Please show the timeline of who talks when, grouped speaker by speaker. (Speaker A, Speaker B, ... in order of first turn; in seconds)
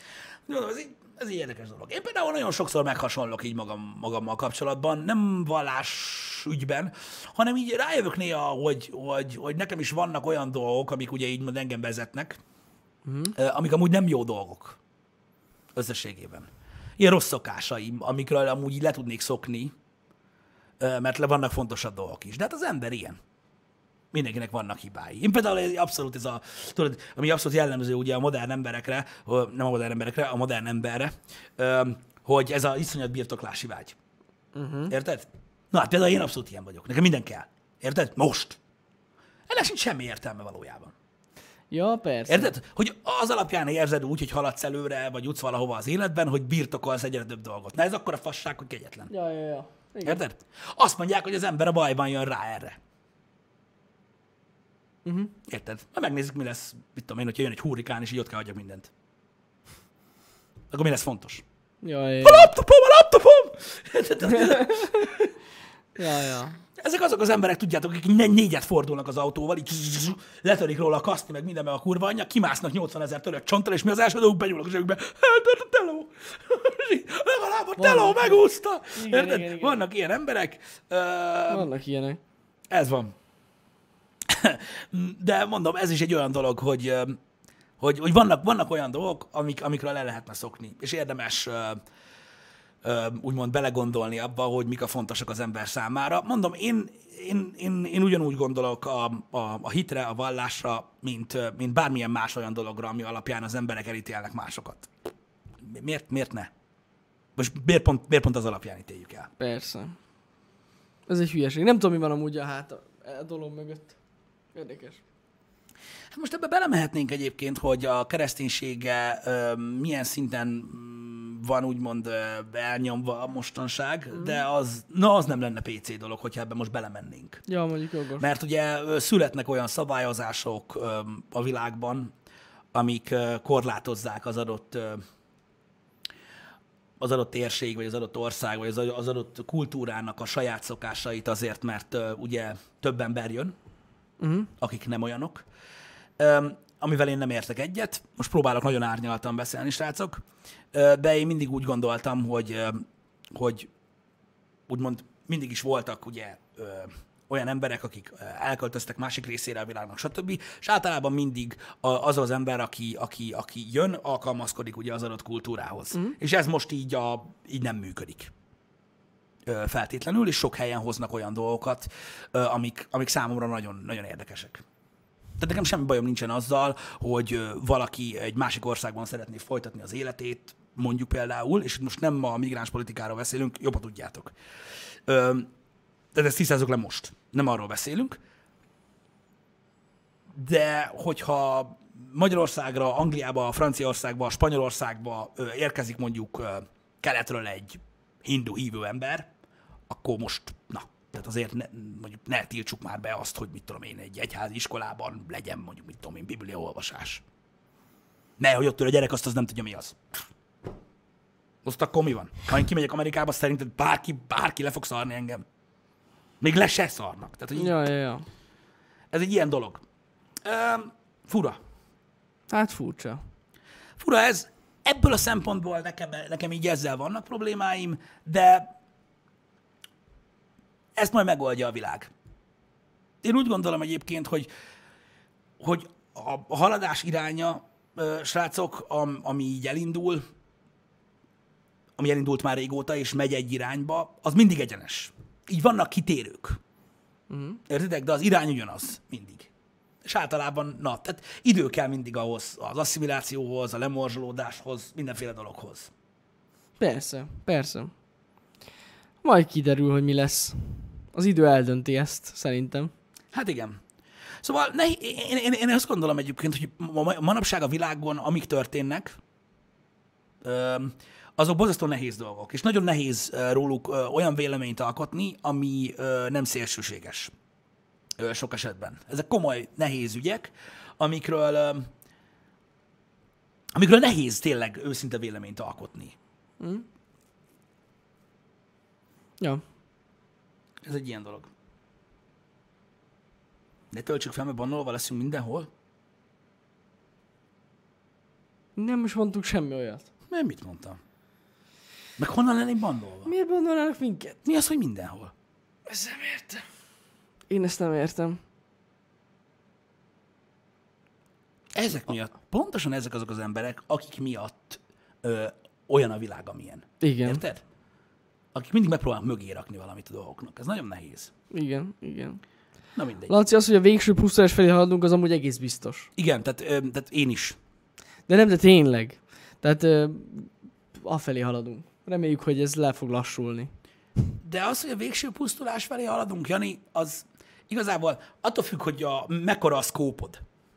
Speaker A: 0.5-12.4, 13.3-14.8, 15.8-19.7, 20.8-23.2, 24.1-34.0, 34.9-38.6, 39.5-40.9, 42.3-49.1, 50.0-52.8, 55.5-58.9, 60.7-61.4, 62.2-65.3, 66.8-81.7, 82.7-83.1, 84.3-87.2, 87.8-91.8, 92.8-104.9, 105.6-106.5, 107.4-109.3, 116.1-127.4, 128.2-132.1, 132.7-135.0, 137.0-143.6, 144.6-145.4, 146.2-150.2, 150.7-153.7, 154.7-168.3, 169.5-174.6, 175.4-184.3, 185.1-185.5, 186.1-188.2, 190.3-199.3, 199.9-207.2, 208.4-210.0, 211.6-215.4, 216.4-217.8, 219.1-219.8, 220.4-221.6, 224.0-228.7, 231.0-232.1, 233.2-234.5, 235.6-240.2, 242.0-246.6, 247.7-249.5, 250.0-255.9, 263.3-263.8, 264.4-269.2, 270.4-277.3, 278.2-281.9, 283.8-286.1, 290.8-291.5, 293.9-295.7, 300.3-301.0, 302.2-303.3, 304.4-305.3, 311.8-317.6, 318.5-321.3, 322.9-323.3, 326.2-327.6, 334.4-340.4
Speaker B: 13.1-13.3, 34.5-34.9, 41.7-42.5, 49.1-50.2, 55.0-55.3, 61.8-62.5, 64.3-65.3, 66.0-66.6, 77.8-78.4, 78.9-79.8, 81.5-82.2, 109.4-110.0, 111.1-114.0, 114.5-115.0, 127.5-128.3, 144.2-144.5, 217.5-218.3, 222.5-223.2, 247.3-247.6, 256.8-257.9, 259.2-262.9, 286.6-286.9, 298.8-300.1, 303.3-304.4, 305.9-306.6, 307.5-308.4, 317.0-317.4, 321.5-322.4, 323.3-326.1, 328.3-333.7